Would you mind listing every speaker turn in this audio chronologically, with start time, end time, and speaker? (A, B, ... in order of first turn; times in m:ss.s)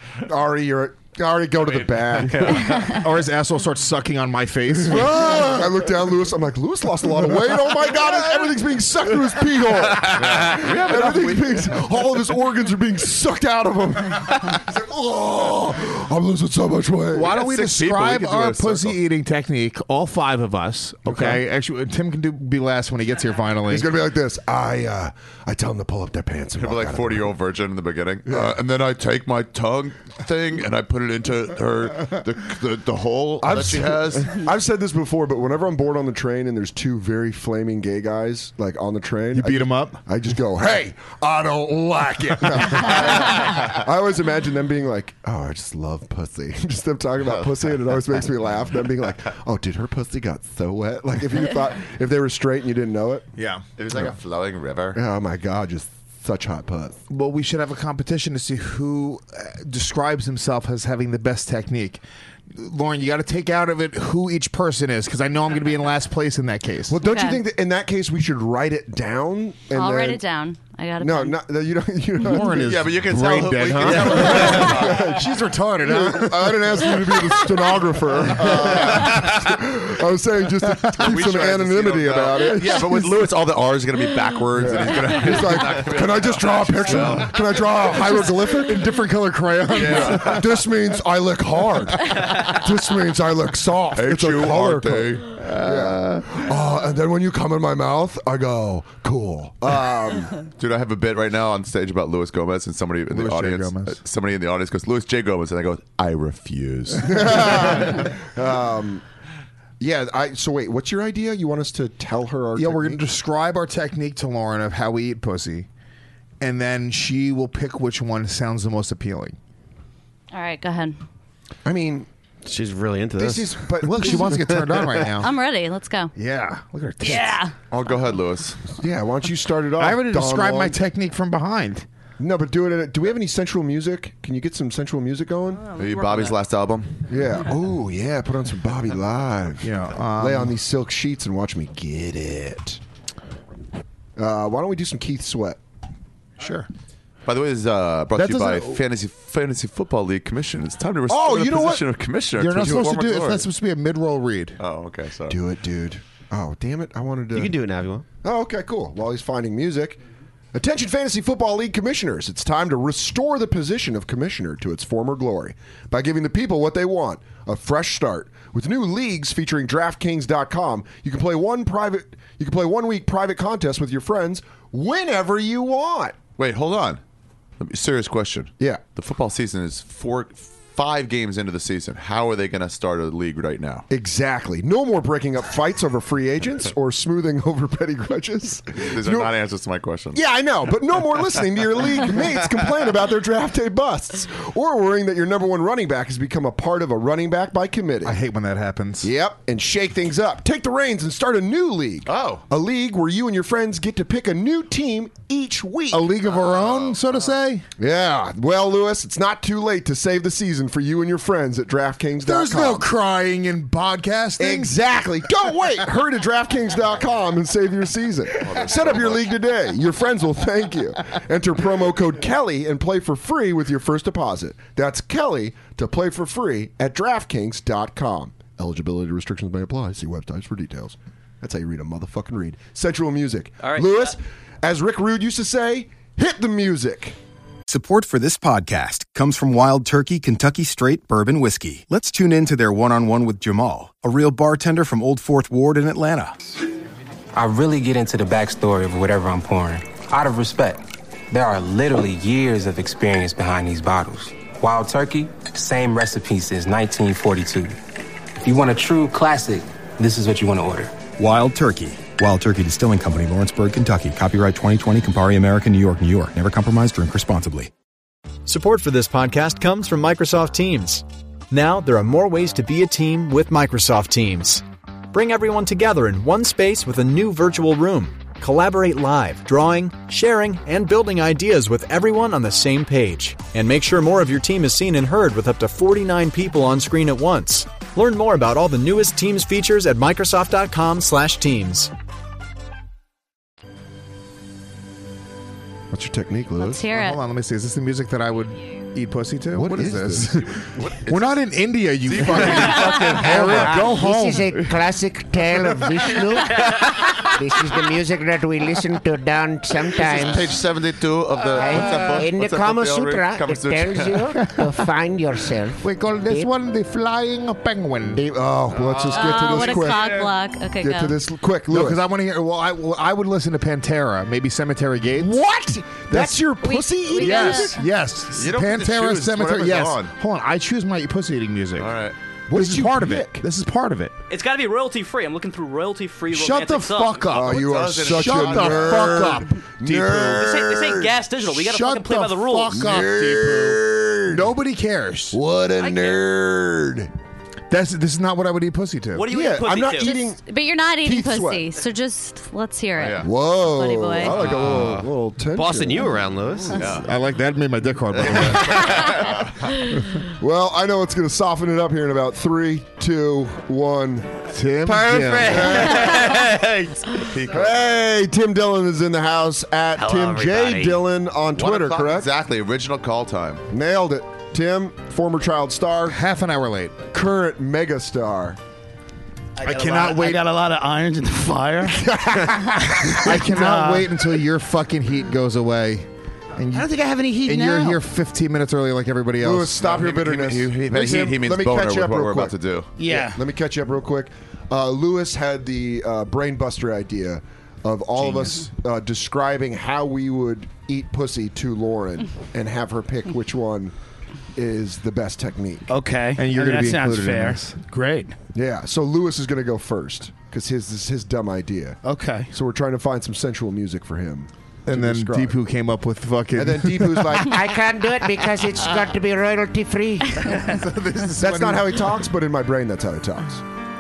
0:00.2-0:02.8 A
0:01.7-0:02.9 B
0:02.8-0:05.7 C
0:04.8-0:17.4 A
0:10.0-0:11.8 B
0:17.1-0:23.9 C
0:17.3-0:19.0 B
0:21.1-0:21.4 A
0:23.7-0:27.3 A
0:26.6-0:34.5 B
0:28.3-0:28.6 A
0:33.4-0:53.3 A
0:39.4-0:40.0 C
0:53.4-0:53.6 C
0:53.8-0:55.0 B
0:54.9-0:57.0 A
0:57.1-1:07.0 C
1:06.9-1:10.2 A
1:07.0-1:07.4 D
1:09.7-1:11.4 D
1:11.0-1:12.8 A
1:12.2-1:17.4 C
1:12.6-1:15.1 B
1:13.9-1:23.2 A
1:18.3-1:19.4 B
1:21.0-1:28.0 B
1:24.6-1:29.0 A
1:27.9-1:30.5 C
1:29.7-1:30.5 B
1:29.8-1:40.3 A
1:34.0-1:35.3 B
1:35.4-1:36.4 C
1:40.6-1:48.0 B
1:43.1-1:44.0 C
1:47.0-1:49.0 A
1:49.8-1:53.0 A
1:52.6-1:55.7 C
1:56.4-1:59.4 C
2:00.3-2:01.0 D
2:01.6-2:02.1 A
2:02.4-2:05.0 E
2:03.2-2:04.6 A
2:03.8-2:05.3 C
2:05.2-2:06.1 D
2:06.2-2:07.4 C
2:07.0-2:07.5 D
2:07.7-2:08.6 B
2:08.8-2:10.8 A
2:09.8-2:11.9 C
2:12.2-2:15.6 A
2:15.6-2:16.4 F
2:15.8-2:17.0 B
2:17.1-2:22.8 A
2:19.6-2:20.6 C
2:24.2-2:25.6 A
2:26.4-2:26.7 C
2:27.2-2:33.5 B
2:28.2-2:28.8 C
2:31.1-2:31.8 A
2:32.4-2:34.6 C
2:34.6-2:35.4 B
2:35.3-2:37.6 A
2:37.3-2:38.1 E
2:38.2-2:40.0 A
2:40.5-2:56.2 A
2:56.4-2:57.0 B
2:57.6-3:03.9 B
3:03.9-3:09.3 A
3:08.8-3:10.2 B
3:10.1-3:18.2 A
3:18.0-3:19.1 C
3:19.0-3:26.1 A
3:22.1-3:22.4 B
3:25.9-3:27.7 C
3:26.3-3:27.3 B
3:27.8-3:32.9 A
3:32.2-3:34.8 C
3:34.4-3:57.2 A
3:38.4-3:39.3 B
3:53.6-3:54.1 F
3:57.7-4:06.4 G
4:07.4-4:17.8 H
4:18.4-4:21.0 H
4:21.2-4:27.7 G
4:28.5-4:51.9 I
4:55.9-4:56.9 A
4:56.6-4:57.2 D
4:56.9-5:04.8 C
4:59.5-5:00.5 A
5:00.6-5:01.4 B
5:02.0-5:03.8 B
5:03.2-5:10.6 J
5:10.0-5:14.3 B
5:11.5-5:16.5 J
5:14.4-5:14.7 C
5:15.8-5:18.2 C
5:18.2-5:22.0 A
5:18.8-5:19.4 B
5:19.1-5:21.2 D
5:21.7-5:25.4 C
5:25.2-5:27.8 A
5:26.1-5:32.0 C
5:26.6-5:27.8 D
5:28.3-5:30.1 B
5:31.8-5:32.2 B
5:32.5-5:33.4 A
5:32.5-5:34.1 C
5:34.3-5:37.4 F
5:36.3-5:40.5 C
5:37.3-5:41.1 A
5:37.5-5:39.4 B
5:40.4-5:42.8 F
5:41.4-5:45.4 C
5:42.7-5:44.5 A
5:45.3-5:47.1 A
5:45.8-5:46.2 F
5:47.7-5:49.3 C
5:49.2-5:50.2 F
5:49.3-5:51.7 A
5:49.9-5:54.4 D
5:53.0-5:53.3 B
5:53.2-5:56.2 A
5:54.4-5:56.9 E
5:56.7-5:57.1 B
5:57.0-5:59.1 C
5:58.2-5:59.7 B
6:00.4-6:04.5 A
6:04.5-6:06.0 C
6:04.9-6:06.9 E
6:05.4-6:06.5 A
6:07.2-6:08.0 B
6:07.5-6:12.3 A
6:10.1-6:11.0 E
6:11.6-6:13.6 B
6:13.7-6:16.2 A
6:16.1-6:17.0 C
6:17.1-6:18.6 A
6:19.6-6:22.1 K
6:19.6-6:20.4 C
6:22.3-6:26.9 C
6:23.0-6:24.2 K
6:26.7-6:28.0 K
6:27.4-6:29.8 C
6:29.4-6:43.9 A
6:29.8-6:32.9 B
6:33.0-6:33.4 K
6:44.6-6:45.9 A
6:45.9-6:48.3 K
6:46.4-6:47.8 C
6:48.5-6:55.6 A
6:52.0-6:52.5 K
6:54.9-6:57.4 C
6:56.6-6:57.5 A
6:57.4-7:00.6 J
7:00.5-7:02.1 C
7:01.4-7:03.6 A